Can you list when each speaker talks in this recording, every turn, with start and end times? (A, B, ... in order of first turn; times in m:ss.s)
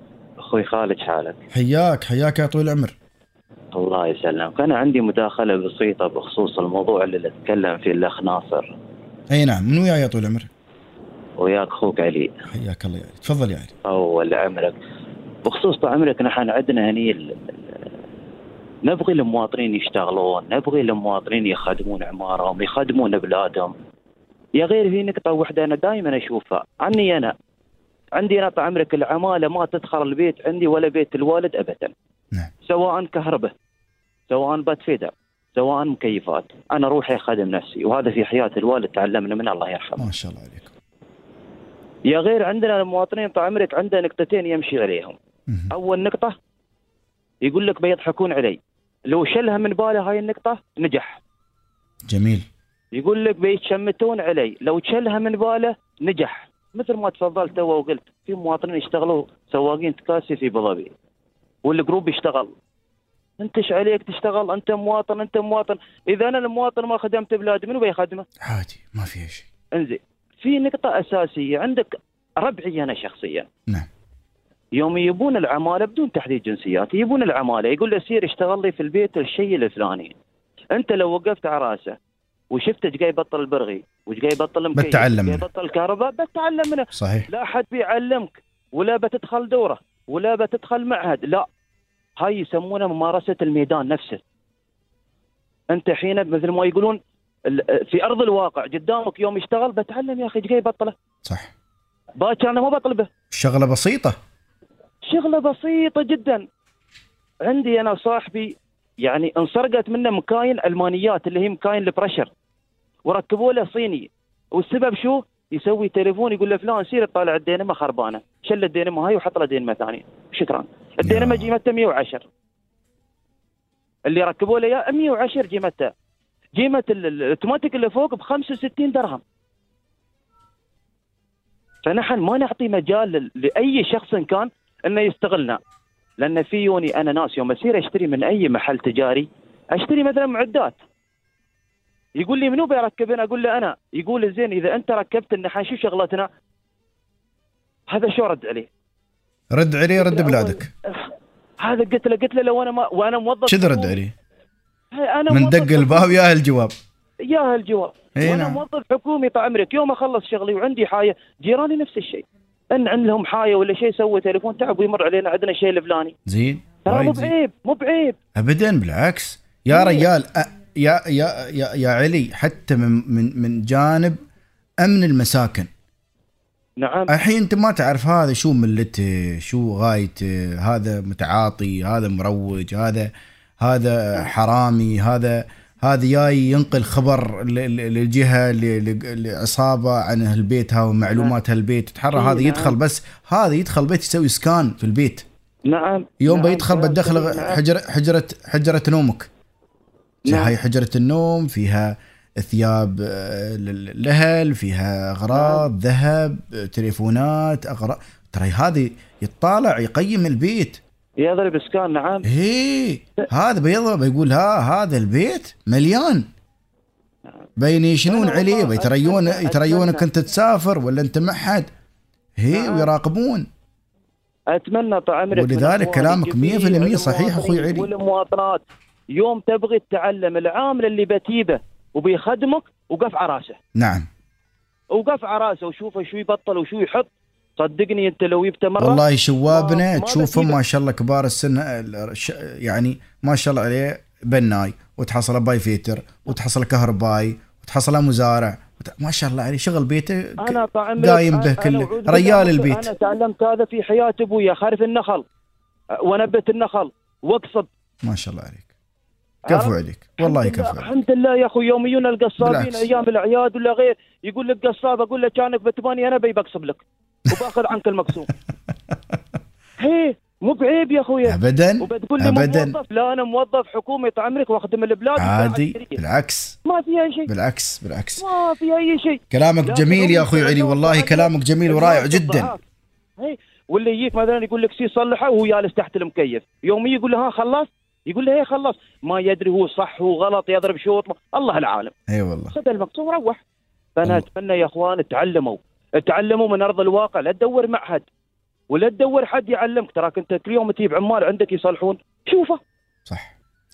0:00.4-0:01.4 A
0:01.5-0:02.9 B
0:03.8-0:08.7 A
0:09.3-0:10.5 B
0:11.4-0:12.3 A
0:12.5-0:13.7 B
0:13.8-0:14.8 A
0:15.4-0:17.8 A
0:18.8-0:23.7 A
0:24.6-0:27.3 A
0:28.2-0:31.9 A
0:32.6-0:33.5 A
0:34.3-0:40.1 A
0:40.0-0:40.7 B
0:42.1-0:45.2 A
0:45.7-0:46.3 A
0:47.4-0:51.2 A
0:52.1-0:52.4 B
0:53.0-1:00.9 A
1:01.7-1:02.5 A
1:03.4-1:08.2 A
1:08.4-1:09.5 B
1:09.8-1:11.9 A
1:12.4-1:13.5 A
1:14.8-1:20.1 A
1:20.7-1:22.0 A
1:22.5-1:31.5 A
1:24.8-1:25.4 B
1:26.9-1:27.3 B
1:32.2-1:34.2 A
1:35.7-1:41.0 A
1:41.2-1:41.5 B
1:42.2-1:43.1 A
1:43.3-1:44.2 B
1:45.1-1:46.4 A
1:47.4-1:52.3 A
1:53.1-2:02.2 A
2:01.0-2:01.5 B
2:04.1-2:05.9 A
2:06.6-2:09.2 A
2:11.8-2:15.6 A
2:16.2-2:20.8 A
2:22.2-2:26.3 A
2:27.9-2:28.7 A
2:29.5-2:30.7 B
2:30.0-2:34.0 A
2:33.5-2:34.1 B
2:34.9-2:36.2 A
2:35.3-2:36.7 B
2:37.2-2:46.1 A
2:38.2-2:38.6 B
2:46.3-2:47.3 B
2:46.9-2:48.2 A
2:48.4-2:54.2 B
2:49.7-2:50.1 A
2:54.8-2:55.7 B
2:56.8-2:57.1 A
2:57.1-3:15.2 B
3:12.1-3:12.8 A
3:15.7-3:17.6 A
3:16.2-3:19.3 B
3:20.3-3:20.5 A
3:20.3-3:30.8 B
3:25.3-3:25.7 A
3:31.2-3:32.3 A
3:32.3-3:36.2 B
3:37.6-3:41.7 B
3:38.1-3:40.0 A
3:42.4-3:43.5 B
3:42.5-3:42.9 A
3:44.5-3:48.6 A
3:45.3-3:47.9 B
3:49.1-3:53.6 A
3:53.8-3:54.1 B
3:54.9-4:00.6 A
3:58.8-4:12.9 B
4:10.4-4:15.2 A
4:16.0-4:17.7 A
4:18.0-4:18.7 B
4:19.5-4:20.9 B
4:19.5-4:28.3 A
4:22.4-4:22.9 B
4:29.8-4:36.0 A
4:31.2-4:32.8 B
4:35.2-4:36.6 B
4:36.6-4:37.3 A
4:37.3-4:38.3 B
4:38.2-4:42.6 A
4:39.3-4:42.5 B
4:43.2-4:51.9 A
4:52.1-4:52.6 B
4:52.5-4:53.4 A
4:54.0-4:58.1 A
4:58.7-5:02.6 A
5:03.1-5:03.4 B